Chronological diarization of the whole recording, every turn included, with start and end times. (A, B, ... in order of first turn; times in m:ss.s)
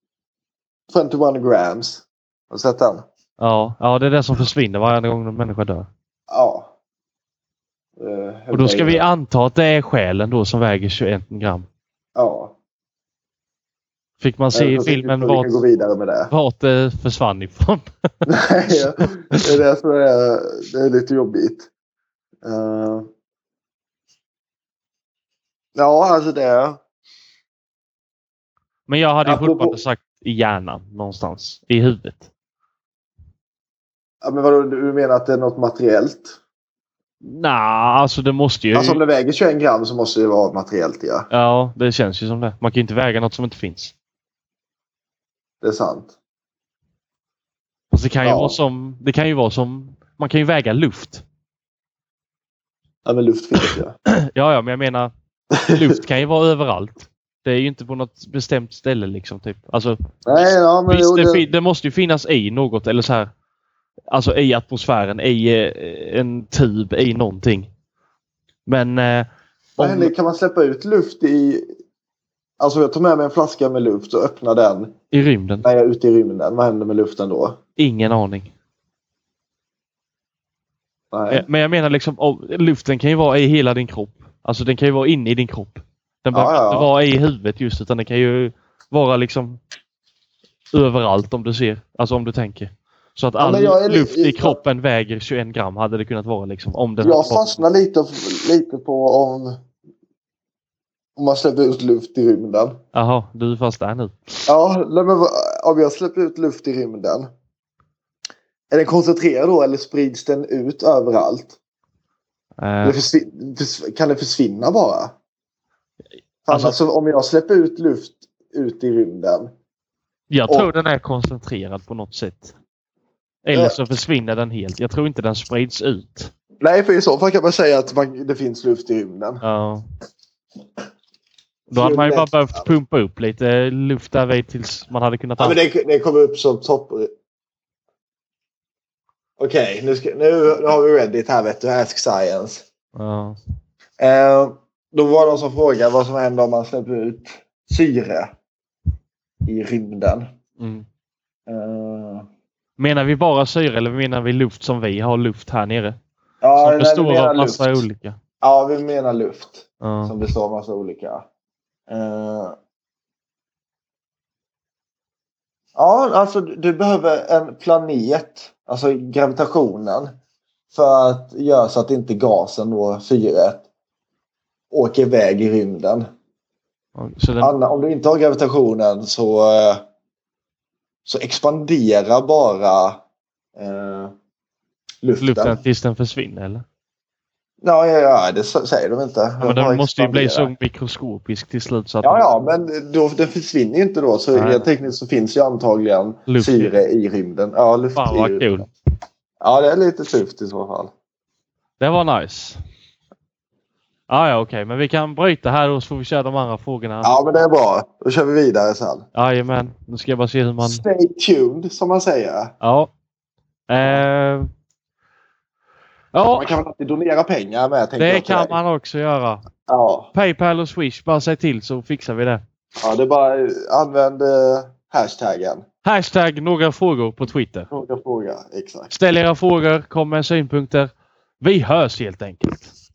0:00.9-0:03.0 A
0:03.4-0:05.9 B
0:06.3-0:06.7 A
0:08.0-0:09.1 A
0:08.5-0:11.7 B
0:12.2-0:12.6 A
0:14.2-0:15.6 B
0:14.5-0:16.3 A
0:16.3-0:17.9 B
0:18.3-0:21.7 A
0:22.4-0:23.1 A
0:25.8-0:26.8 A
0:28.9-0:32.3 B
0:29.2-0:29.8 A
0:34.2-0:36.4 A
0:37.2-0:39.0 B
0:38.7-0:41.3 A
0:41.3-0:43.9 B
0:45.6-0:46.2 A
0:47.9-0:51.2 B
0:48.2-0:48.6 A
0:53.0-0:53.9 A
0:54.1-0:55.1 B
0:55.5-0:56.0 A
0:55.7-1:03.3 B
1:00.3-1:01.4 A
1:04.1-1:07.7 B
1:08.7-1:10.1 B
1:09.8-1:11.7 A
1:12.6-1:14.9 A
1:15.1-1:15.7 B
1:15.6-1:17.6 A
1:17.8-1:18.5 B
1:21.1-1:21.5 A
1:21.3-1:29.6 B
1:26.3-1:26.9 A
1:30.7-1:37.6 B
1:33.4-1:34.6 A
1:37.0-1:39.6 A
1:41.2-1:42.8 A
1:42.9-1:44.5 B
1:44.5-1:47.3 A
1:48.7-1:51.6 A
1:52.6-1:53.0 B
1:52.8-1:55.2 A
1:56.5-1:59.5 A
1:56.5-1:56.8 B
2:00.3-2:02.5 B
2:03.4-2:06.3 B
2:06.6-2:09.4 A
2:09.4-2:09.8 B
2:11.7-2:15.6 B
2:11.7-2:12.7 A
2:15.4-2:17.1 A
2:19.4-2:22.6 A
2:23.0-2:23.4 B
2:24.0-2:28.3 A
2:29.5-2:30.2 A
2:30.6-2:30.9 B
2:31.5-2:32.3 A
2:32.8-2:36.0 B
2:36.4-2:37.8 A
2:36.6-2:38.2 B
2:38.4-2:41.2 A
2:39.8-2:40.1 B
2:41.9-2:42.6 A
2:45.8-2:50.1 A
2:50.7-2:53.7 A
2:54.7-2:56.0 A
2:57.0-2:57.6 B
2:57.4-2:59.8 A
3:01.1-3:03.0 A
3:03.6-3:04.1 A
3:05.0-3:05.6 A
3:05.2-3:06.6 B
3:07.6-3:10.5 A
3:09.4-3:12.3 B
3:12.0-3:18.5 A
3:14.3-3:14.7 B
3:16.3-3:16.8 B
3:18.0-3:18.7 B
3:19.4-3:20.9 A
3:21.8-3:22.6 B
3:24.1-3:27.2 B
3:27.0-3:29.0 A
3:29.2-3:30.8 B
3:30.6-3:32.5 A
3:32.6-3:32.9 B
3:33.7-3:34.5 B
3:36.1-3:36.6 B
3:36.4-3:38.6 A
3:38.0-3:39.4 B
3:39.7-3:40.1 A
3:40.1-3:42.4 B
3:42.8-3:45.6 A
3:45.8-3:47.7 B
3:47.7-3:48.9 A
3:48.9-3:50.9 B
3:51.4-3:52.7 B